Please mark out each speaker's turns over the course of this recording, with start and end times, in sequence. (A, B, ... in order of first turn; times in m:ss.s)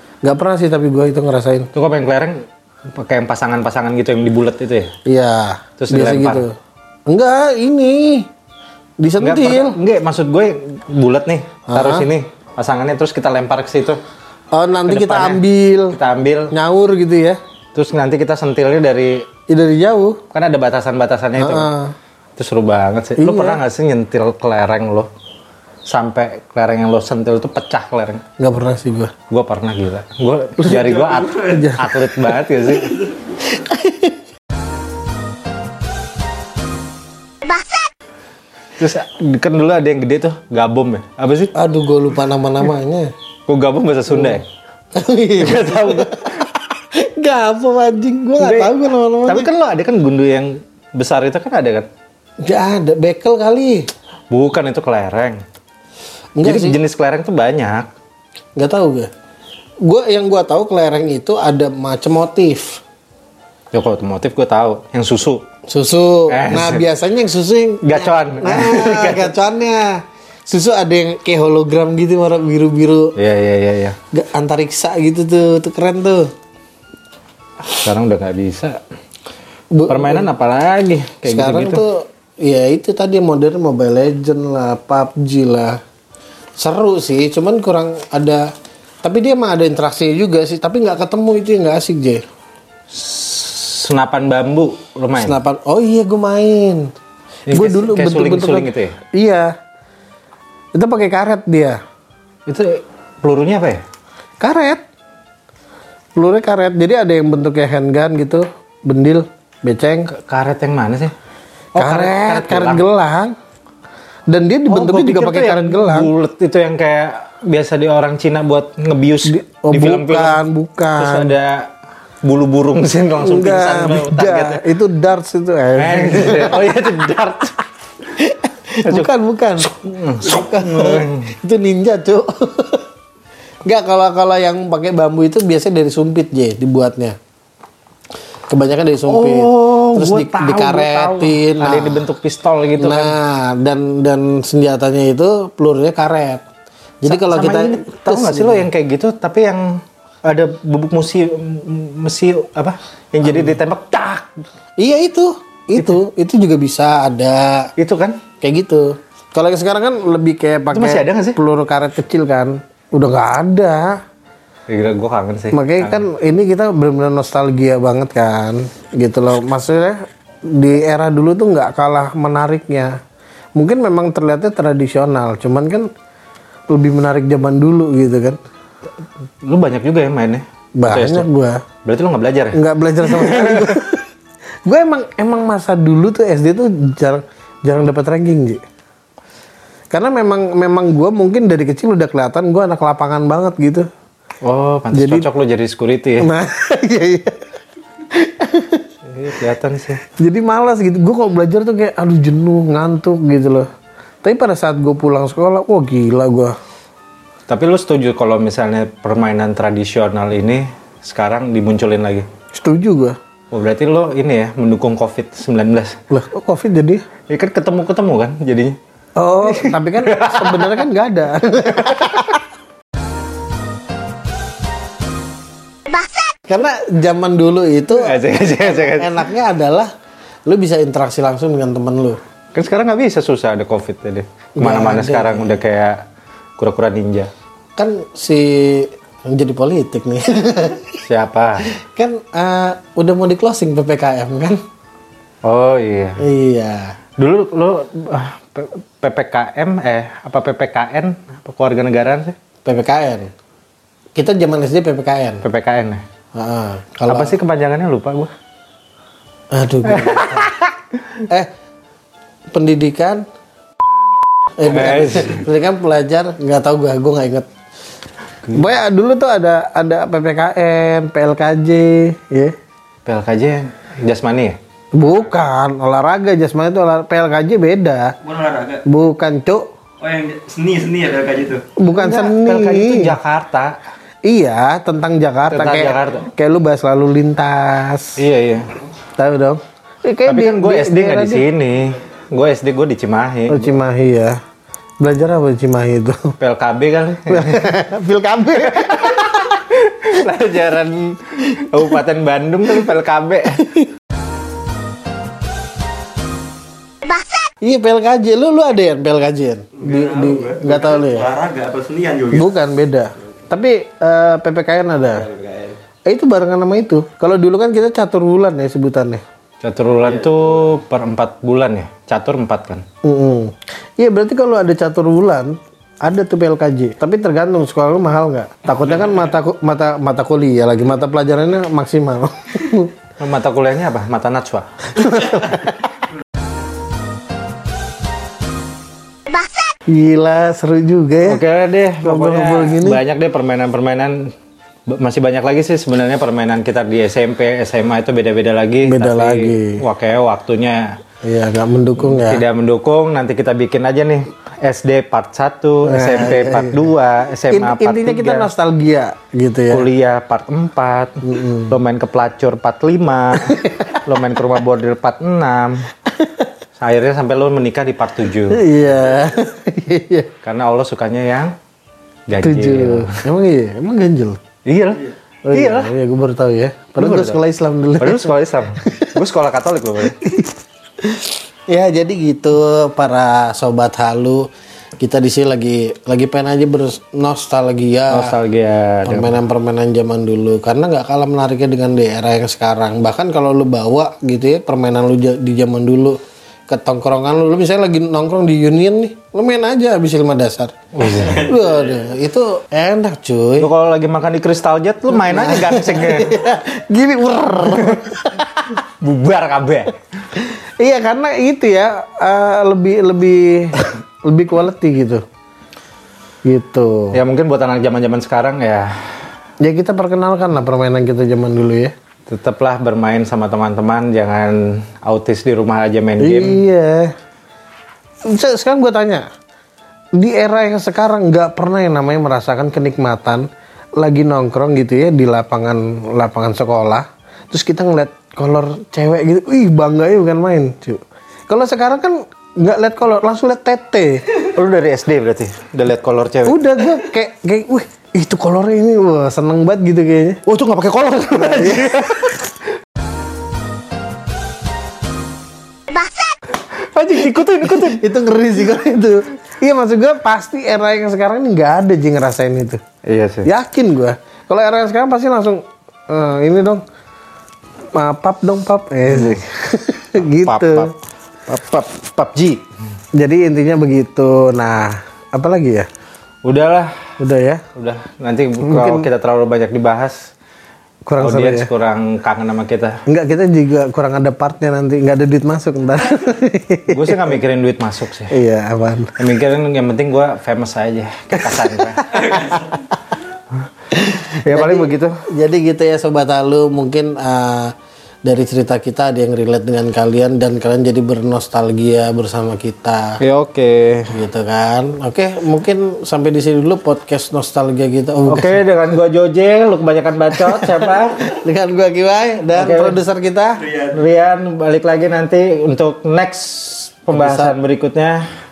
0:00.2-0:01.7 A
0:01.7-0:04.9 B
0:05.1-0:06.5 A
0:05.8-0:06.5 B
0:07.1-0:08.3 A
0:09.0-0:09.8 A
0:09.2-0:14.0 B
0:11.7-0:12.1 A
0:14.5-0:16.0 A
0:14.9-0:16.5 B
0:16.5-0:17.4 A
0:17.8-0:19.3 B
0:19.5-0:20.2 A
0:20.3-0:21.7 B
0:21.4-0:21.9 A
0:22.4-0:25.1 B
0:23.2-0:23.6 A
0:25.9-0:28.2 B
0:28.4-0:29.1 A
0:29.3-0:33.0 B
0:30.6-0:32.1 A
0:33.4-0:34.2 A
0:38.8-0:41.5 B
0:41.5-0:43.1 A
0:43.5-0:44.5 B
0:44.1-0:44.4 A
0:45.0-0:49.5 A
0:45.4-0:46.4 B
0:48.4-0:51.9 B
0:52.4-0:53.9 A
0:54.3-0:55.4 B
0:56.4-0:56.8 A
0:56.4-0:57.9 B
0:58.6-0:59.1 A
0:59.8-1:02.8 A
1:03.7-1:05.4 B
1:05.7-1:13.1 A
1:06.3-1:06.8 B
1:07.8-1:09.3 B
1:13.2-1:14.0 B
1:14.1-1:16.3 A
1:17.6-1:18.8 B
1:19.7-1:20.3 A
1:19.9-1:21.8 B
1:21.2-1:25.8 A
1:26.6-1:28.5 A
1:29.0-1:32.2 A
1:32.9-1:35.4 B
1:35.2-1:36.9 A
1:37.5-1:39.0 B
1:37.5-1:39.5 A
1:40.7-1:41.8 A
1:42.5-1:43.8 B
1:44.4-1:44.8 A
1:46.2-1:50.1 A
1:50.1-1:51.1 B
1:51.8-1:52.9 B
1:51.8-1:53.4 A
1:54.3-1:56.1 A
1:54.7-2:00.4 B
1:59.3-2:01.4 A
2:01.0-2:01.7 B
2:02.2-2:04.7 B
2:03.2-2:06.9 A
2:05.8-2:07.6 B
2:08.1-2:12.9 A
2:08.8-2:11.3 B
2:13.6-2:17.2 A
2:18.5-2:22.1 A
2:19.0-2:23.2 B
2:22.8-2:26.4 A
2:27.0-2:28.7 A
2:27.1-2:34.3 B
2:34.8-2:37.7 A
2:37.8-2:38.2 B
2:38.4-2:44.0 A
2:40.7-2:41.4 B
2:44.7-2:46.0 B
2:45.5-2:53.0 A
2:53.6-2:55.9 A
2:56.7-2:58.4 A
2:59.4-3:01.3 B
3:00.8-3:01.6 A
3:01.8-3:03.8 B
3:02.5-3:04.1 A
3:04.6-3:08.6 A
3:09.9-3:13.9 A
3:14.4-3:16.3 B
3:14.9-3:15.3 A
3:16.2-3:17.4 A
3:18.1-3:18.9 A
3:19.1-3:20.0 B
3:20.1-3:23.7 A
3:24.2-3:26.5 A
3:27.5-3:32.3 B
3:32.5-3:33.2 A
3:33.5-3:36.0 B
3:36.1-3:37.0 A
3:37.3-3:38.8 B
3:39.2-3:42.4 A
3:39.4-3:40.9 B
3:46.5-3:49.9 A
3:48.0-3:49.3 B
3:50.5-3:52.2 A
3:52.5-3:56.0 B
3:54.6-3:55.6 A
3:56.6-3:57.3 B
3:57.8-4:01.0 A
4:01.0-4:01.7 B
4:01.7-4:04.6 A
4:05.4-4:06.2 B
4:06.2-4:07.0 A
4:07.2-4:12.4 B
4:12.6-4:13.3 A
4:14.2-4:15.4 A
4:15.4-4:16.0 B
4:16.4-4:17.3 A
4:17.1-4:18.3 B
4:19.5-4:20.5 A
4:19.9-4:20.7 B
4:22.5-4:23.3 A
4:24.6-4:27.5 A
4:24.6-4:25.4 B
4:28.5-4:32.6 A
4:33.1-4:34.6 B
4:35.0-4:38.2 A
4:38.2-4:38.8 C
4:38.9-4:39.7 A
4:40.0-4:41.7 C
4:41.8-4:43.2 A
4:41.9-4:43.8 B
4:44.3-4:48.2 A
4:45.5-4:46.3 B
4:48.2-4:48.7 B
4:49.2-4:51.4 A
4:50.3-4:53.7 B
4:53.5-4:54.4 A
4:55.0-4:56.4 A
4:56.4-4:57.7 B
4:57.3-4:59.5 A
4:58.7-5:03.7 B
5:07.6-5:11.3 A
5:09.8-5:12.5 C
5:12.3-5:15.3 A
5:15.1-5:15.8 C
5:16.1-5:19.2 A
5:19.6-5:22.8 B
5:23.0-5:32.9 A
5:33.2-5:35.4 B
5:34.9-5:35.9 A
5:39.9-5:41.4 A
5:41.2-5:44.3 B
5:42.0-5:43.0 A
5:44.9-5:51.0 B
5:48.8-5:49.8 A
5:51.2-5:52.4 A
5:52.0-5:58.5 B
5:55.8-5:56.9 A
5:57.5-5:59.9 A
5:59.7-6:05.9 B
6:01.2-6:01.7 A
6:03.5-6:04.0 A
6:06.8-6:08.6 B
6:08.5-6:10.3 A
6:10.4-6:11.6 B
6:12.3-6:13.2 B
6:12.4-6:14.4 A
6:14.6-6:15.9 B
6:15.5-6:19.2 A
6:17.0-6:17.4 B
6:18.0-6:20.2 B
6:20.2-6:28.4 A
6:28.1-6:29.4 B
6:29.0-6:43.7 A
6:40.9-6:41.6 B
6:43.6-6:46.4 B
6:45.1-6:48.7 A
6:48.7-6:50.0 B
6:50.4-6:55.2 A
6:56.5-6:57.2 A
6:57.1-6:58.9 B
6:59.6-7:01.9 A
7:02.3-7:06.6 B
7:06.2-7:07.1 A
7:08.2-7:09.3 A
7:10.2-7:24.3 A
7:24.5-7:26.9 B
7:26.5-7:30.4 A
7:30.5-7:32.4 B
7:31.6-7:32.1 A
7:36.7-7:38.0 B
7:37.6-7:42.8 A
7:43.1-7:43.5 B
7:43.4-7:46.8 A
7:47.9-7:50.9 A
7:49.1-7:49.4 B
7:50.3-7:50.9 B
7:51.5-7:52.6 B
7:53.1-7:55.9 A
7:56.4-7:57.1 B
7:57.2-7:57.6 A
7:57.8-8:00.3 B
7:58.6-7:59.1 A
8:01.1-8:01.7 A
8:01.2-8:03.0 B
8:03.1-8:07.4 A
8:06.9-8:08.4 B
8:08.3-8:09.2 A
8:09.2-8:12.6 B
8:11.4-8:13.0 A
8:13.9-8:23.2 A
8:14.2-8:15.2 B
8:23.2-8:24.2 B
8:24.1-8:28.5 A
8:28.2-8:31.3 B
8:30.3-8:33.7 A
8:32.5-8:33.0 B
8:33.9-8:38.2 B
8:37.1-8:37.6 A